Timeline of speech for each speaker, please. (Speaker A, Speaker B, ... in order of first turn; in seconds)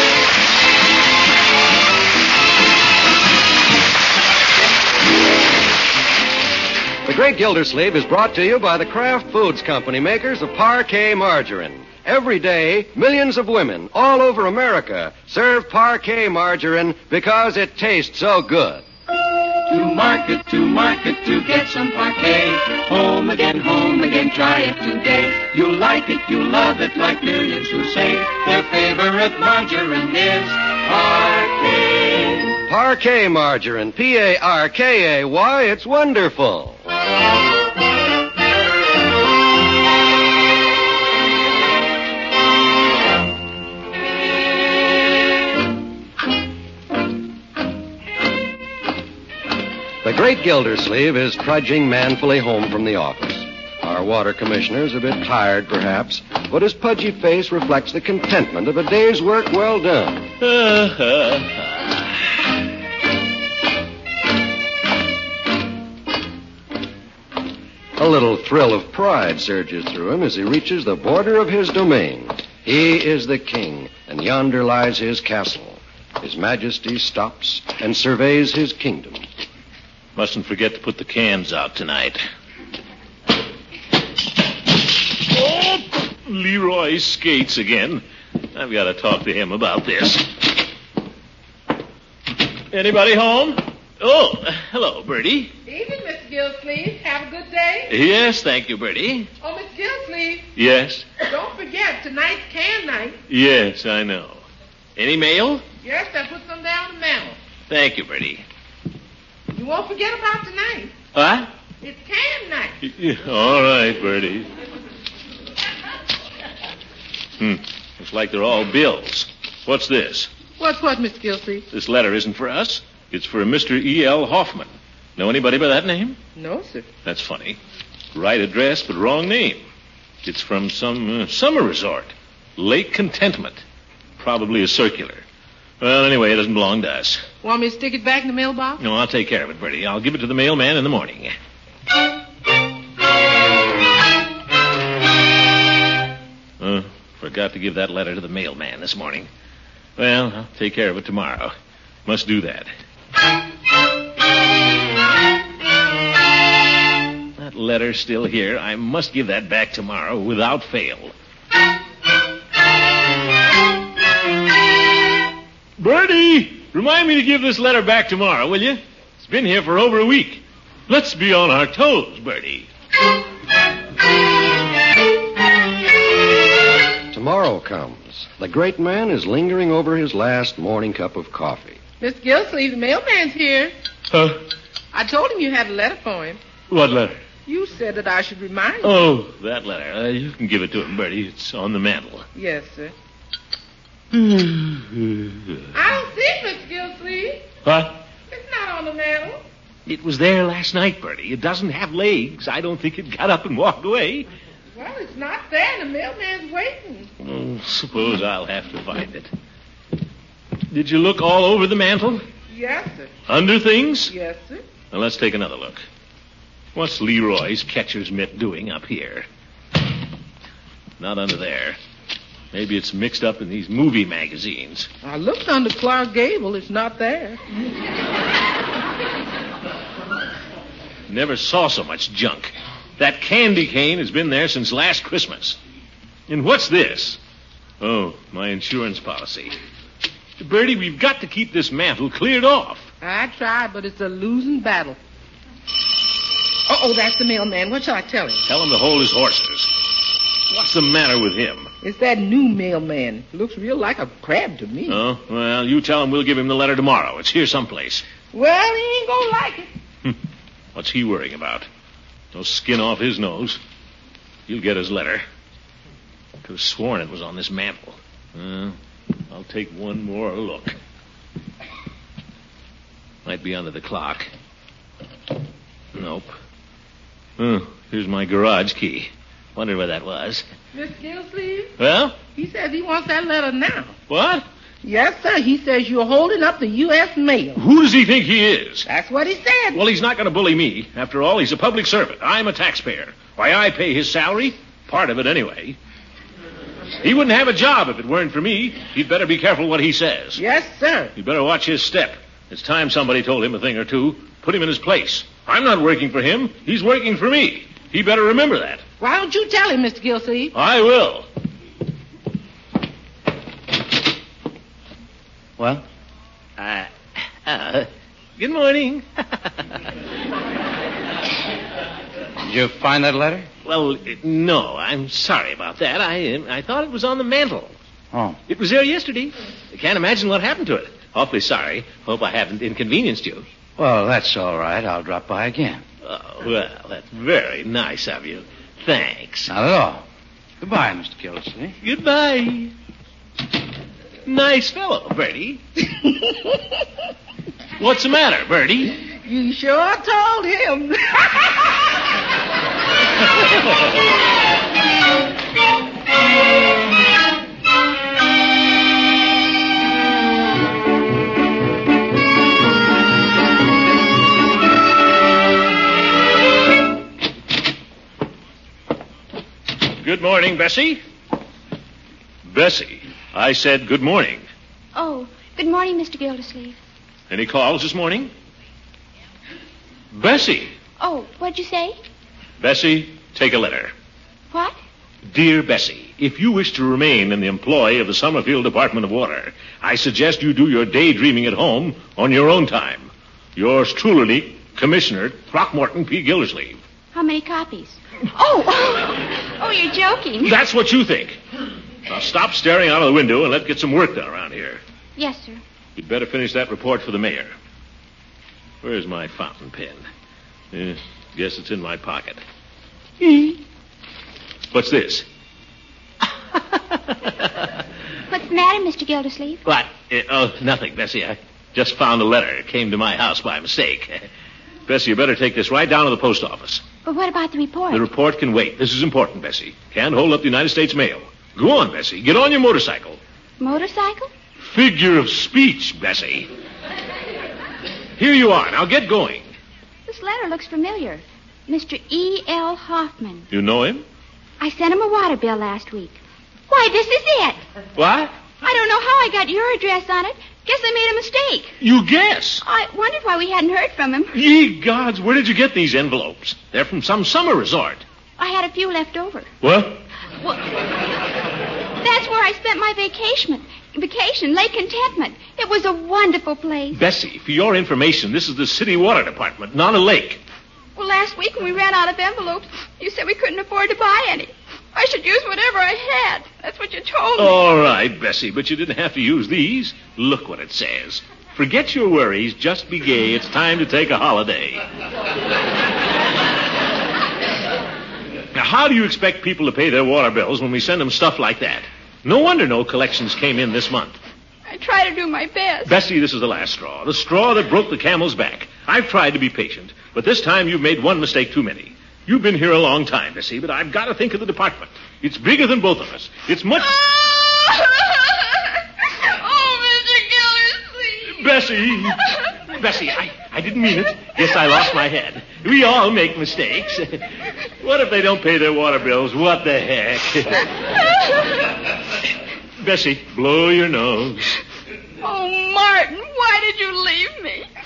Speaker A: 7.0-18.8, 32.7-36.8, 50.0-60.3, 68.0-79.2, 177.1-181.8
Speaker B: 19.7-32.5
Speaker C: 60.4-62.0, 80.2-82.2, 85.3-88.0, 88.5-90.3, 92.7-95.5, 97.9-99.3, 100.5-101.2, 103.3-104.4, 105.0-105.6, 107.7-108.4, 111.1-111.5, 112.8-114.5, 117.4-120.3, 121.7-126.2, 127.0-127.6, 128.1-129.6, 130.2-133.6, 134.2-135.2, 135.8-137.2, 138.8-141.3, 146.6-149.3, 150.0-151.5, 152.1-152.7, 157.4-161.1, 165.8-172.7, 184.1-184.4, 186.7-187.2, 188.8-192.2, 194.1-195.6, 197.6-198.0, 199.8-204.3, 207.2-209.3, 210.7-212.2, 213.3-214.1, 214.9-215.8, 216.7-219.2, 221.0-221.8, 222.5-224.9, 231.1-235.6, 236.3-237.2, 237.8-239.5, 240.4-242.8, 248.5-249.7, 250.5-251.7, 254.9-258.0, 260.7-261.7, 262.3-263.6, 264.5-265.2, 266.4-268.8, 269.3-270.8, 273.2-274.3, 275.9-276.3, 277.4-280.4, 281.8-282.1, 284.1-284.4, 287.6-288.9, 289.7-295.8, 297.0-300.4, 301.1-308.8, 310.5-311.2, 316.6-316.9, 317.4-319.7, 323.6-327.7, 328.5-333.4, 336.0-339.5, 341.8-342.7, 344.2-345.6, 347.8-348.9, 370.0-371.0, 372.4-374.4, 377.3-378.3, 380.1-380.7, 382.6-383.9, 385.3-396.8, 400.4-401.4, 402.1-404.8, 405.9-407.5, 408.8-410.0, 410.7-412.4, 413.2-413.6, 414.7-415.2, 416.6-417.3, 419.6-424.2, 424.9-426.8, 427.9-433.2, 434.6-436.5, 438.2-439.5, 443.5-444.0, 447.9-448.3, 451.8-452.6, 454.3-458.0, 459.6-460.0, 466.9-470.4, 477.4-484.8, 488.5-494.1, 495.8-507.0, 511.3-517.2, 517.8-520.7, 522.8-524.5
Speaker D: 95.7-97.9, 99.4-100.5, 101.3-103.2, 105.8-107.4, 109.5-110.9, 111.8-112.7, 120.6-121.6, 126.3-126.9, 137.4-138.8, 182.0-183.7, 184.9-186.4, 187.4-189.0, 192.3-192.9, 195.7-197.4, 198.3-199.4, 204.7-207.1, 212.5-213.1, 214.1-214.6, 225.0-227.4, 243.0-245.0, 246.7-248.4, 251.8-255.0, 258.3-259.7, 280.7-281.7, 282.3-283.9, 284.8-287.6, 288.9-289.8, 300.4-301.1, 309.0-310.5, 349.2-351.8
Speaker E: 315.6-315.8, 322.4-323.5, 328.1-328.4, 333.8-335.8, 339.5-340.0, 340.6-341.8
Speaker F: 374.9-376.8, 381.0-382.0, 384.5-384.8, 397.1-400.6, 405.2-405.6, 418.3-419.6, 427.0-428.1, 433.6-434.3, 440.1-443.5, 444.6-447.6, 448.6-451.7, 452.6-454.3, 458.4-459.5, 462.0-467.0, 470.9-477.6, 494.7-495.9, 506.9-508.2, 509.2-511.4, 525.2-527.7